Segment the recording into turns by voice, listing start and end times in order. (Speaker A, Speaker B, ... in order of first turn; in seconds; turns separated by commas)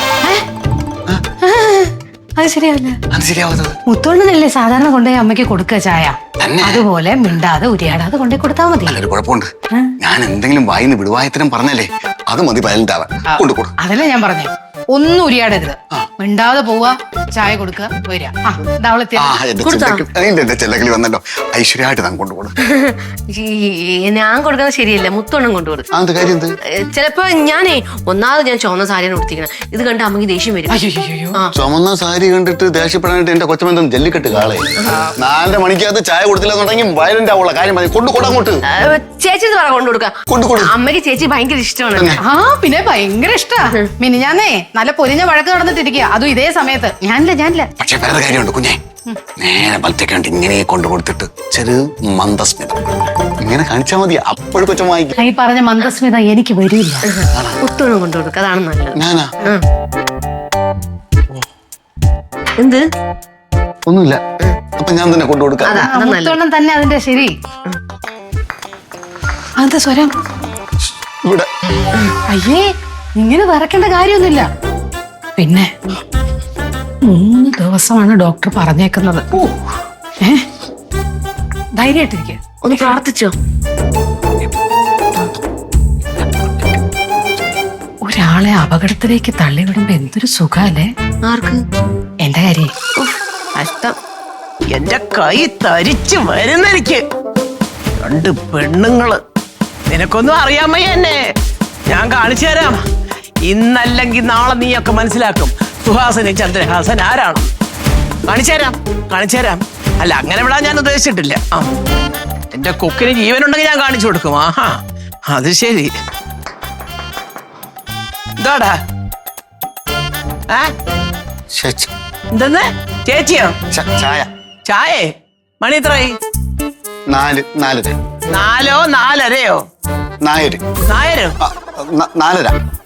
Speaker A: 1.4-3.0, Speaker B: 3.1-3.8, Speaker A: 3.9-9.0, Speaker B: 6.4-6.8, Speaker B: 8.8-9.5, Speaker B: 10.0-13.8, Speaker A: 13.3-19.4, Speaker B: 19.2-22.5, Speaker C: 19.6-20.1, Speaker C: 22.6-25.9, Speaker B: 25.9-26.5, Speaker C: 26.7-30.8, Speaker A: 30.7-31.4, Speaker B: 31.5-34.7, Speaker B: 35.2-38.6, Speaker C: 38.7-42.1, Speaker B: 40.3-40.8, Speaker B: 41.9-42.2, Speaker A: 42.2-47.7, Speaker B: 47.8-48.8, Speaker B: 49.4-52.8, Speaker B: 53.4-55.1, Speaker A: 55.2-57.0, Speaker C: 57.1-59.6, Speaker B: 59.0-59.3, Speaker B: 63.9-64.2, Speaker B: 64.8-65.9, Speaker A: 65.7-67.3, Speaker C: 65.7-66.4, Speaker A: 69.6-70.1, Speaker B: 70.8-71.5, Speaker A: 72.3-72.7, Speaker A: 73.2-74.5, Speaker A: 75.4-75.7, Speaker A: 77.0-79.7, Speaker A: 81.8-83.0, Speaker C: 82.6-83.3, Speaker A: 88.0-90.9, Speaker C: 91.3-91.6, Speaker A: 92.2-92.7, Speaker C: 93.0-94.0, Speaker D: 94.7-97.0, Speaker D: 98.0-99.2, Speaker D: 99.9-101.2, Speaker D: 101.9-102.8, Speaker D: 103.5-107.5, Speaker D: 108.3-111.7, Speaker D: 112.5-114.8, Speaker D: 115.3-115.9, Speaker D: 118.4-118.8, Speaker B: 121.5-121.9, Speaker D: 122.3-123.5, Speaker B: 123.7-124.3, Speaker D: 124.7-125.1, Speaker D: 125.6-126.2, Speaker B: 127.1-128.0, Speaker D: 128.3-129.6, Speaker B: 130.2-130.6, Speaker D: 130.9-131.3, Speaker B: 131.4-132.6